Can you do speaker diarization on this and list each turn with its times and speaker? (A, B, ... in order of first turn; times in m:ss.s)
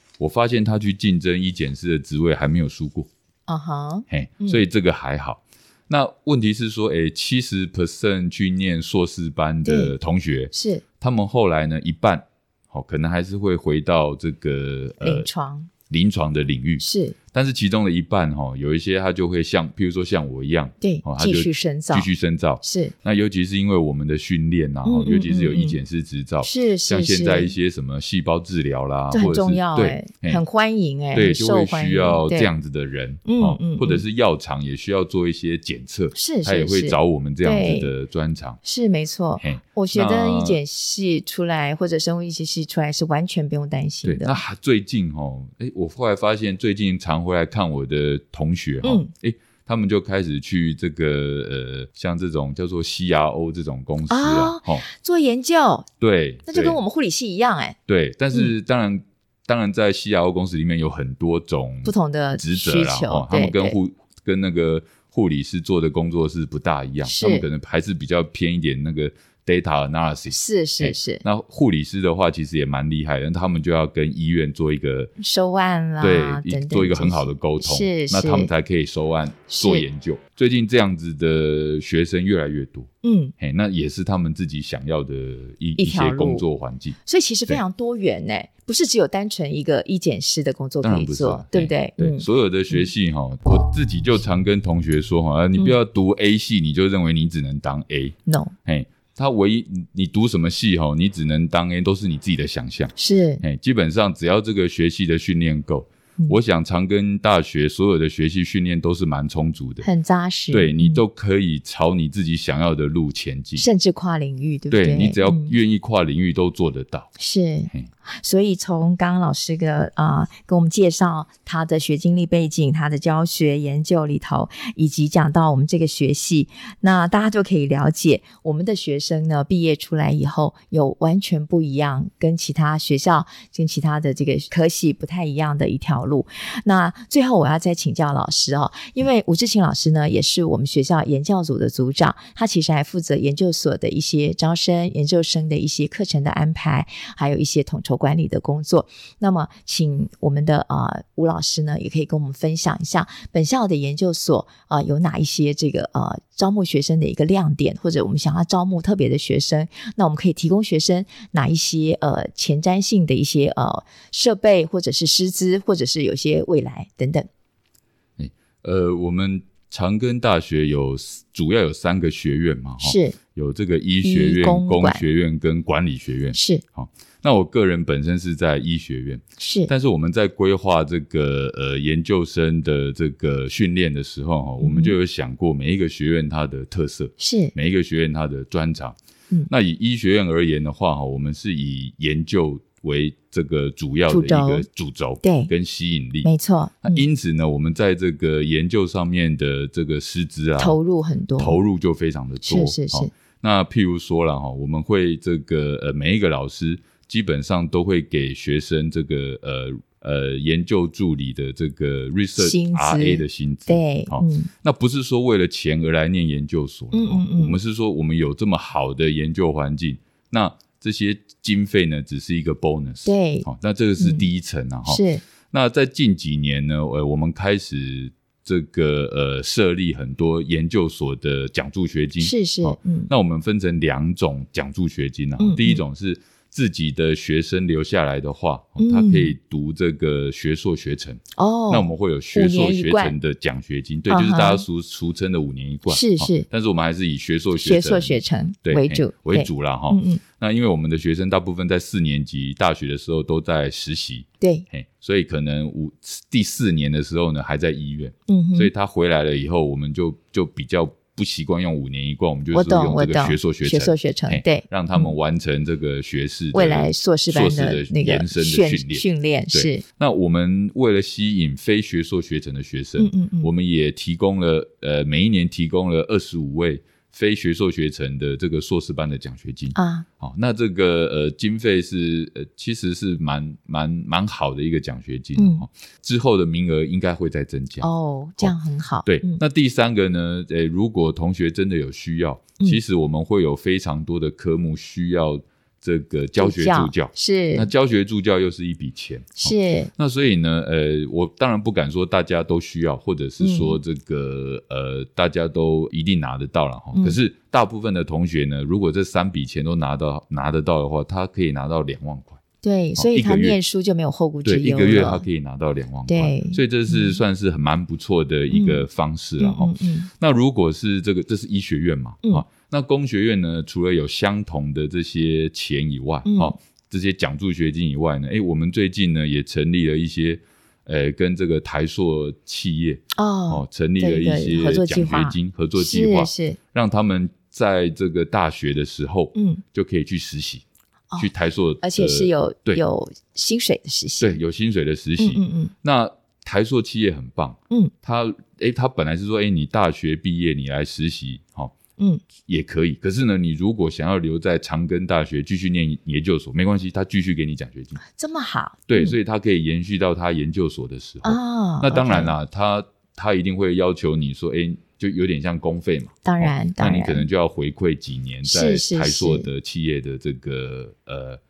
0:00.2-0:03.1 A
0:03.5-0:04.6 B
0:04.1-0:15.3 A
0:09.6-0:09.9 B
0:10.5-0:10.8 B
0:15.0-0:15.7 B
0:15.9-0:30.4 A
0:16.8-0:17.2 B
0:20.8-0:22.1 B
0:22.6-0:22.9 B
0:24.8-0:25.8 B
0:26.4-0:27.5 B
0:29.1-0:32.5 B
0:31.1-0:38.6 A
0:33.2-0:34.0 B
0:36.1-0:37.9 B
0:38.6-0:44.4 B
0:39.4-0:40.6 A
0:44.0-0:54.8 A
0:48.8-0:49.1 B
0:54.1-0:55.9 B
0:56.0-0:56.8 A
0:56.5-0:57.8 B
0:57.9-1:15.1 A
1:01.8-1:03.8 B
1:07.0-1:07.5 B
1:10.3-1:11.2 B
1:15.2-1:18.5 B
1:16.0-1:27.0 A
1:19.5-1:19.8 B
1:23.0-1:23.3 B
1:25.8-1:26.4 B
1:27.0-1:32.9 B
1:30.8-1:49.9 A
1:38.3-1:38.5 B
1:43.0-1:43.4 B
1:49.8-1:51.0 B
1:50.5-1:53.6 A
1:53.6-1:55.6 B
1:54.7-1:57.1 A
1:57.2-2:47.3 B
2:48.2-3:09.0 A
2:52.8-2:53.2 B
2:54.0-2:55.0 B
2:56.3-2:56.6 B
2:59.4-2:59.7 B
3:04.6-3:04.9 B
3:07.2-3:07.5 B
3:09.5-3:16.3 A
3:14.1-3:14.6 B
3:15.2-3:15.5 B
3:16.2-3:17.0 B
3:16.8-3:20.8 A
3:20.6-3:21.6 B
3:21.4-4:47.9 A
3:22.4-3:23.1 B
3:32.4-3:34.5 B
3:36.9-3:37.6 B
3:43.0-3:43.5 B
3:44.0-3:44.2 B
3:44.8-3:45.2 B
3:52.2-3:53.1 B
3:55.4-3:55.8 B
3:58.8-3:59.3 B
4:01.4-4:03.2 B
4:04.1-4:04.6 B
4:05.9-4:06.5 B
4:07.6-4:10.2 B
4:14.4-4:14.6 B
4:18.3-4:18.7 B
4:22.5-4:25.1 B
4:26.5-4:29.8 B
4:33.0-4:33.5 B
4:39.8-4:40.0 B
4:45.4-4:45.6 B
4:47.8-4:49.4 B
4:48.4-5:12.4 A
4:56.4-4:57.7 B
4:59.4-4:59.9 B
5:03.4-5:03.8 B
5:12.6-5:15.2 B
5:13.0-5:13.6 A
5:14.4-5:40.6 A
5:16.1-5:17.2 B
5:18.5-5:18.8 B
5:19.4-5:20.1 B
5:26.2-5:26.6 B
5:33.1-5:36.6 B
5:39.3-5:39.6 B
5:41.2-5:42.8 A
5:41.8-5:44.4 B
5:44.2-5:51.7 A
5:45.2-5:45.7 B
5:52.0-5:52.2 B
5:52.4-5:58.0 A
5:58.1-5:59.1 B
5:58.9-6:11.4 A
6:01.2-6:02.3 B
6:06.2-6:07.2 B
6:08.4-6:09.5 B